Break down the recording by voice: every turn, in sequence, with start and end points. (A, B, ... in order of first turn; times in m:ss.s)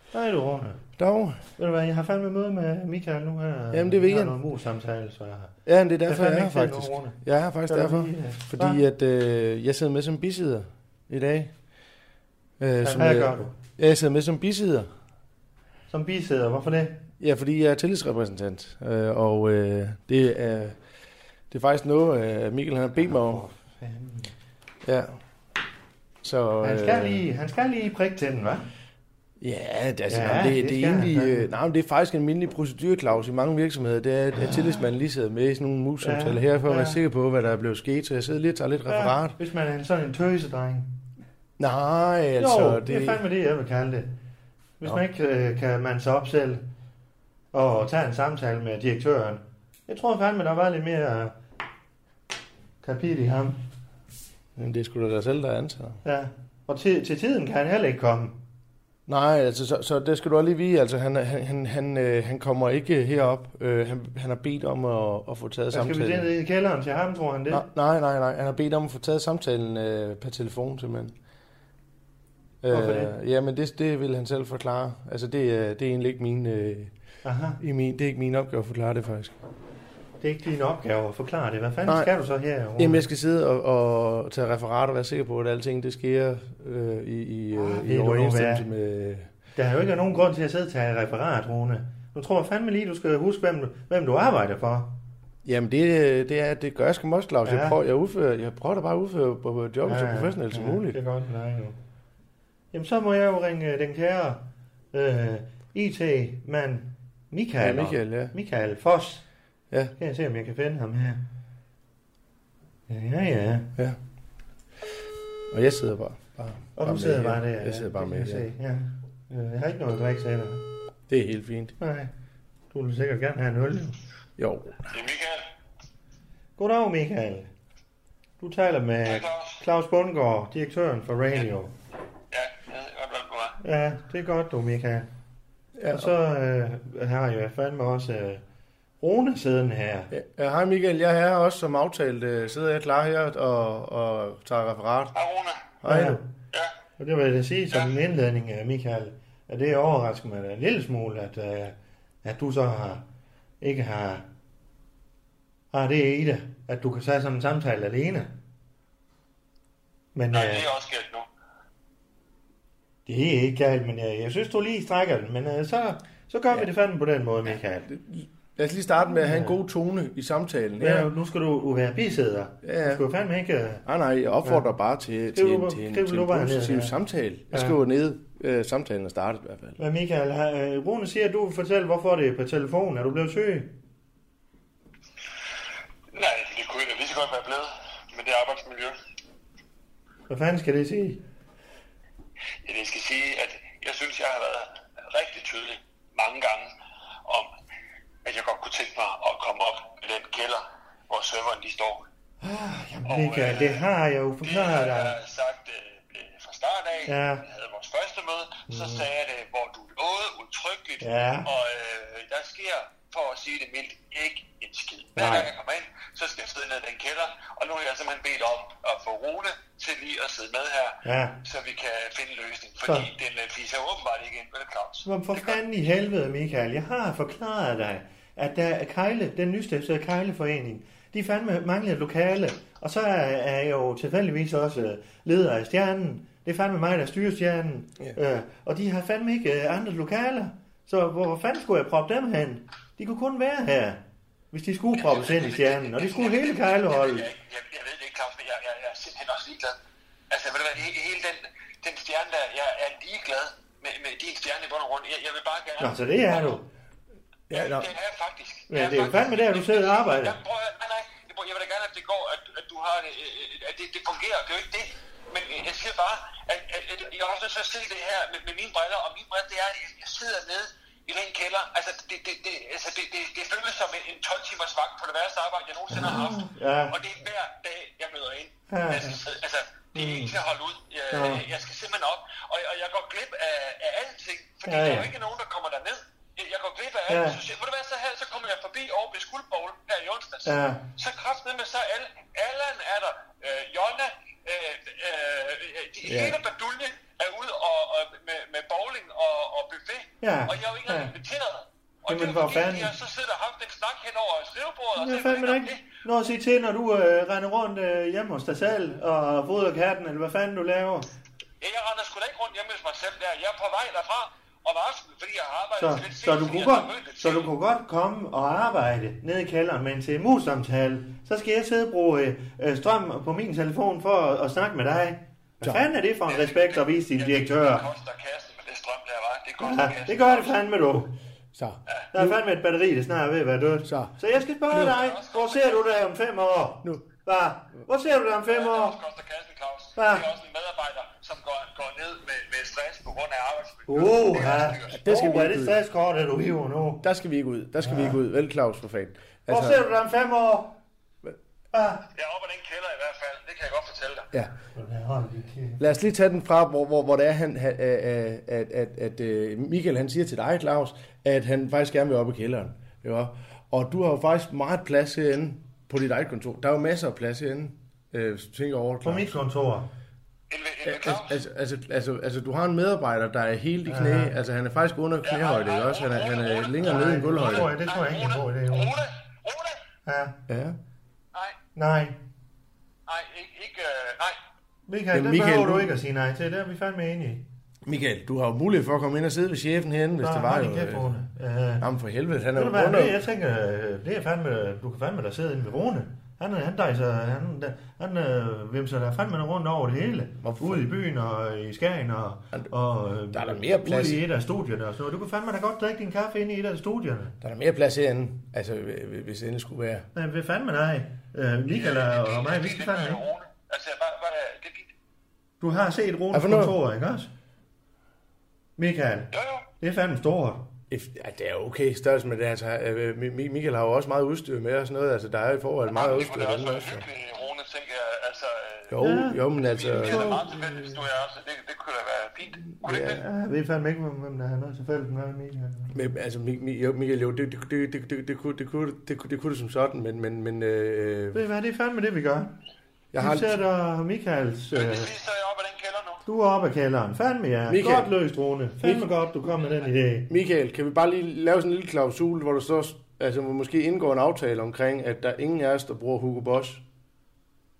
0:00.1-0:00.8 A
0:01.0-0:01.4 B
0:01.6-0:08.8 A
0:03.7-0:04.4 B
0:05.6-0:11.5 B
0:12.6-0:14.9 B
0:12.8-0:13.5 A
0:15.9-0:17.0 A
0:17.2-0:20.8 B
0:21.5-0:23.4 B
0:23.0-0:24.3 A
0:24.8-0:25.2 B
0:26.2-0:27.2 B
0:26.6-0:28.6 A
0:29.4-0:39.4 B
0:30.1-0:31.4 A
0:34.4-0:34.9 A
0:36.0-0:37.0 A
0:38.9-0:40.9 A
0:41.6-0:43.2 B
0:42.4-0:44.1 A
0:44.8-0:46.6 A
0:47.5-0:51.4 A
0:52.8-0:53.6 A
0:54.6-0:56.0 B
0:56.0-0:58.4 A
0:59.1-1:06.3 B
1:05.7-1:07.6 A
1:07.5-1:11.1 B
1:12.6-1:16.9 B
1:12.7-1:13.1 A
1:17.2-1:17.6 A
1:17.6-1:19.4 B
1:20.2-1:23.0 A
1:22.8-1:29.3 B
1:27.6-1:28.6 A
1:29.5-1:35.0 A
1:35.4-1:41.0 B
1:37.4-1:37.8 A
1:39.8-1:41.8 A
1:42.7-1:49.2 A
1:47.6-1:48.3 B
1:50.0-1:51.2 A
1:52.9-1:53.7 A
1:55.5-1:58.5 B
1:56.8-2:00.6 A
2:01.1-2:01.8 B
2:01.8-2:02.1 A
2:02.7-2:04.0 A
2:04.4-2:04.8 B
2:04.9-2:05.5 C
2:06.6-2:07.5 A
2:08.4-2:11.7 A
2:09.0-2:09.6 C
2:12.3-2:13.6 C
2:13.6-2:15.1 A
2:15.8-2:16.1 B
2:15.9-2:18.4 A
2:19.0-2:20.1 A
2:20.1-2:25.1 B
2:25.1-2:25.7 C
2:25.8-2:26.2 B
2:25.9-2:26.3 A
2:27.0-2:33.0 A
2:33.6-2:34.2 A
2:35.7-2:38.3 A
2:40.1-2:40.6 A
2:40.3-2:41.2 C
2:43.0-2:47.9 A
2:47.9-2:51.1 B
2:49.1-2:49.6 A
2:50.8-2:53.8 A
2:52.6-2:53.0 B
2:53.8-2:59.8 B
2:55.3-2:56.9 A
2:59.8-3:03.8 A
3:06.1-3:09.0 C
3:10.3-3:11.2 A
3:12.6-3:16.7 C
3:18.2-3:22.0 C
3:22.4-3:25.1 A
3:23.1-3:23.9 C
3:24.4-3:45.6 C
3:27.1-3:27.4 A
3:28.7-3:29.0 A
3:31.0-3:31.5 A
3:35.2-3:35.5 A
3:41.0-3:41.4 A
3:45.0-4:07.3 A
4:05.0-4:09.8 C
4:10.3-4:16.6 C
4:15.8-4:16.6 A
4:17.5-4:17.9 B
4:17.5-5:05.9 C
4:18.7-4:20.4 A
4:35.9-4:37.0 A
4:38.7-4:39.2 A
4:39.9-4:40.3 A
4:41.1-4:41.4 A
4:44.7-4:45.1 A
4:47.1-4:47.4 A
4:50.4-4:50.8 A
4:56.0-4:56.4 B
5:00.2-5:01.1 A
5:02.1-5:02.9 A
5:05.0-5:11.1 A
5:11.6-5:17.5 C
5:15.8-5:27.9 A
5:25.6-5:25.9 B
5:26.3-5:30.6 C
5:29.6-5:31.1 A
5:31.5-5:32.4 B
5:32.1-5:39.0 A
5:33.8-5:34.1 B
5:34.7-5:35.0 B
5:34.7-5:36.0 C
5:38.3-5:45.0 C
5:40.0-5:40.2 A
5:43.9-5:47.0 A
5:44.9-5:45.8 B
5:47.0-5:49.8 B
5:47.8-5:48.2 A
5:49.5-5:50.8 A
5:51.7-5:52.0 A
5:52.1-5:54.3 C
5:54.8-5:55.8 A
5:55.8-6:09.4 B
6:09.0-6:09.9 A
6:10.5-6:11.4 C
6:10.8-6:17.7 B
6:13.9-6:14.3 A
6:15.2-6:19.8 C
6:16.8-6:19.0 A
6:20.1-6:20.4 A
6:20.5-6:20.8 B
6:21.8-6:22.2 A
6:23.1-6:24.4 C
6:24.9-6:27.5 A
6:25.1-6:26.0 B
6:27.8-6:31.2 B
6:30.2-6:31.9 A
6:31.8-6:33.2 B
6:32.5-6:47.4 A
6:40.4-6:40.9 B
6:43.3-6:44.2 B
6:47.4-6:50.1 B
6:50.1-6:53.2 A
6:51.7-6:54.9 C
6:55.6-6:57.3 A
6:56.3-6:56.8 B
6:58.8-7:00.7 A
6:59.3-6:59.7 C
7:00.9-7:07.0 B
7:05.9-7:09.0 C
7:08.9-7:10.3 B
7:09.0-7:09.4 A
7:09.5-7:13.2 C
7:10.0-7:10.9 A
7:12.8-7:13.2 B
7:13.2-7:15.9 A
7:15.9-7:21.4 B
7:21.3-7:22.5 A
7:23.1-7:23.6 B
7:23.2-7:25.1 A
7:24.7-7:26.2 C
7:26.2-7:30.3 A
7:27.7-7:28.1 B
7:28.8-7:29.1 B
7:30.3-7:36.8 B